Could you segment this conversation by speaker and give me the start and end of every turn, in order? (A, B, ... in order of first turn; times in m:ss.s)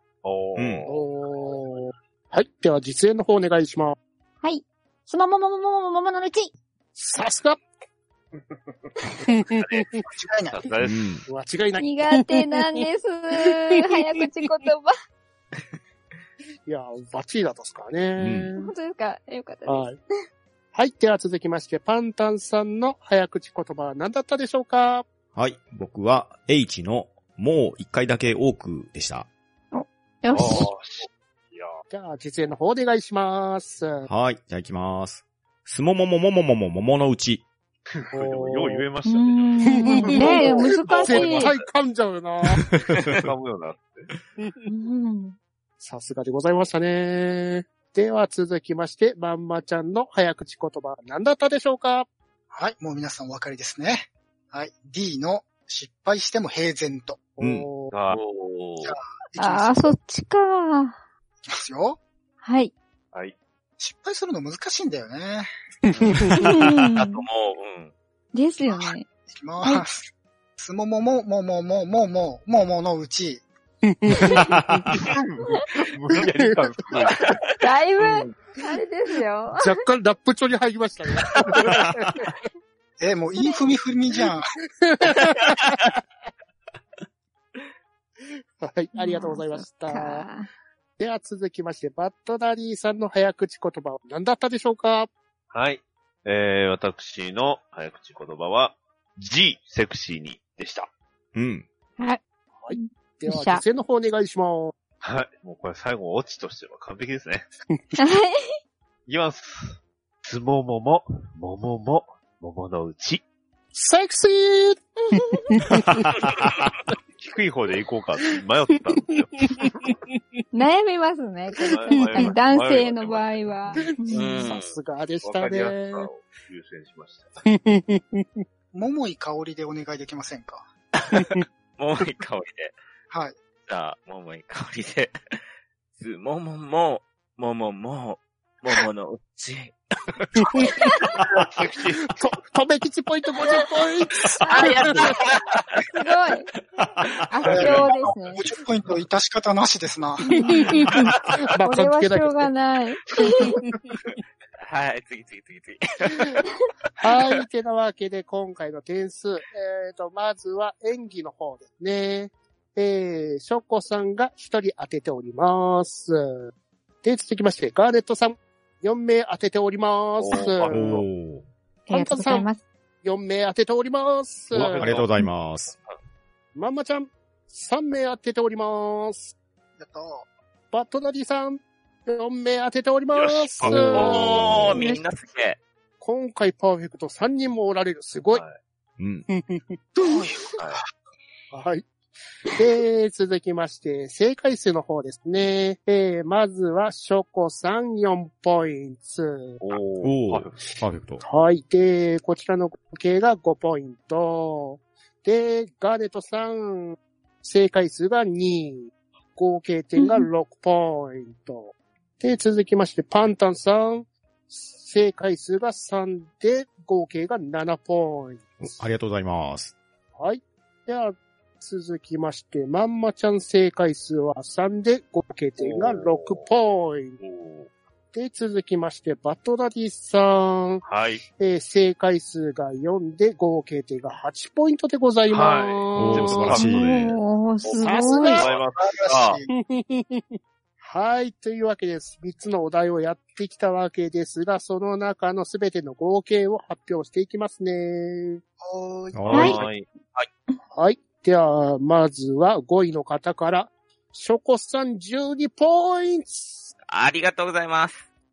0:00.2-0:01.7 A
0:00.6-0:00.9 B
0:00.9-0:04.0 C
0:04.4-0:06.5 D
0:07.0-0:07.6 C
0:09.2-0:09.8 C
0:10.1-0:10.6 E
0:10.5-0:11.2 A
0:10.8-0:11.2 B
0:11.3-0:12.8 C
0:11.8-0:14.9 D
0:13.4-0:14.2 C
0:16.7-0:18.7 C
0:18.2-0:18.5 B
0:18.6-0:19.9 D
0:19.7-0:20.0 C
0:20.8-0:25.0 C
0:25.4-0:29.3 B
0:29.7-0:30.7 D
0:30.3-0:31.7 A
0:31.9-0:34.1 C
0:34.1-0:37.4 B
0:37.9-0:41.5 A
0:38.1-0:38.9 C
0:39.0-0:41.5 D
0:39.7-0:42.6 C
0:40.9-0:41.5 F
0:43.2-0:44.1 A
0:44.7-0:45.4 D
0:45.8-0:52.1 C
0:52.5-0:57.2 E
0:57.4-0:57.9 C
0:57.4-0:57.7 B
0:57.9-0:58.2 A
0:58.1-0:59.0 F
0:58.8-0:59.9 E
0:59.4-1:01.0 D
1:01.5-1:02.0 E
1:02.4-1:02.7 D
1:03.8-1:05.5 E
1:05.9-1:07.9 F
1:06.1-1:06.4 C
1:06.4-1:07.2 D
1:08.3-1:09.1 D
1:08.7-1:13.4 E
1:13.8-1:14.8 C
1:14.9-1:17.3 A
1:17.1-1:18.3 F
1:17.6-1:19.8 D
1:19.6-1:22.2 C
1:21.3-1:21.6 F
1:23.0-1:24.5 E
1:24.8-1:25.8 C
1:25.3-1:25.9 F
1:28.6-1:30.2 C
1:29.0-1:30.5 D
1:31.0-1:35.1 C
1:35.5-1:40.9 A
1:41.4-1:41.7 B
1:42.0-1:43.6 D
1:42.6-1:44.7 C
1:45.0-1:47.5 A
1:48.0-1:48.6 D
1:49.1-1:53.2 A
1:53.8-1:56.0 C
1:57.2-1:59.6 A
1:59.5-2:00.2 C
2:00.5-2:04.4 D
2:01.6-2:04.0 A
2:01.9-2:02.4 C
2:03.8-2:06.1 C
2:04.1-2:04.7 F
2:05.2-2:07.3 A
2:07.5-2:08.4 C
2:08.7-2:10.7 E
2:11.1-2:11.4 C
2:11.8-2:12.8 F
2:13.1-2:13.4 E
2:13.7-2:15.2 F
2:16.0-2:21.2 F
2:20.4-2:20.8 C
2:21.4-2:22.1 A
2:22.1-2:25.1 C
2:24.3-2:25.9 F
2:24.4-2:25.3 D
2:25.9-2:26.5 D
2:26.8-2:27.1 B
2:27.3-2:28.5 D
2:27.4-2:30.4 E
2:30.3-2:31.1 D
2:30.3-2:31.0 C
2:30.8-2:31.4 F
2:31.6-2:32.5 C
2:31.6-2:33.6 D
2:33.2-2:33.8 C
2:34.6-2:36.5 F
2:37.0-2:51.0 C
2:50.2-2:51.1 A
2:50.7-2:51.4 B
2:51.9-2:52.6 D
2:51.9-2:52.5 C
2:53.0-2:54.9 C
2:54.5-2:55.1 A
2:54.8-2:55.8 B
2:56.6-2:59.3 C
2:59.8-3:00.3 E
3:00.7-3:04.4 C
3:03.1-3:04.5 A
3:03.8-3:05.6 F
3:06.0-3:08.4 C
3:08.3-3:08.6 A
3:09.0-3:09.3 B
3:09.3-3:09.8 C
3:10.0-3:10.5 F
3:11.5-3:11.9 C
3:12.5-3:19.6 C
3:19.6-3:20.8 A
3:20.0-3:21.2 B
3:21.2-3:38.8 C
3:30.0-3:30.3 D
3:38.6-3:39.8 B
3:40.2-3:47.2 C
3:45.6-3:46.5 A
3:47.2-3:47.7 A
3:48.1-3:50.8 C
3:50.8-3:51.2 A
3:51.4-3:56.6 C
3:55.3-3:59.0 A
3:56.0-3:56.9 B
3:56.5-3:58.4 D
3:57.8-3:58.5 C
3:58.4-3:59.5 E
3:59.0-3:59.4 F
3:59.5-4:08.4 C
4:08.6-4:09.5 E
4:09.1-4:09.6 B
4:09.3-4:09.9 A
4:09.3-4:09.6 D
4:10.7-4:16.7 C
4:16.9-4:18.0 F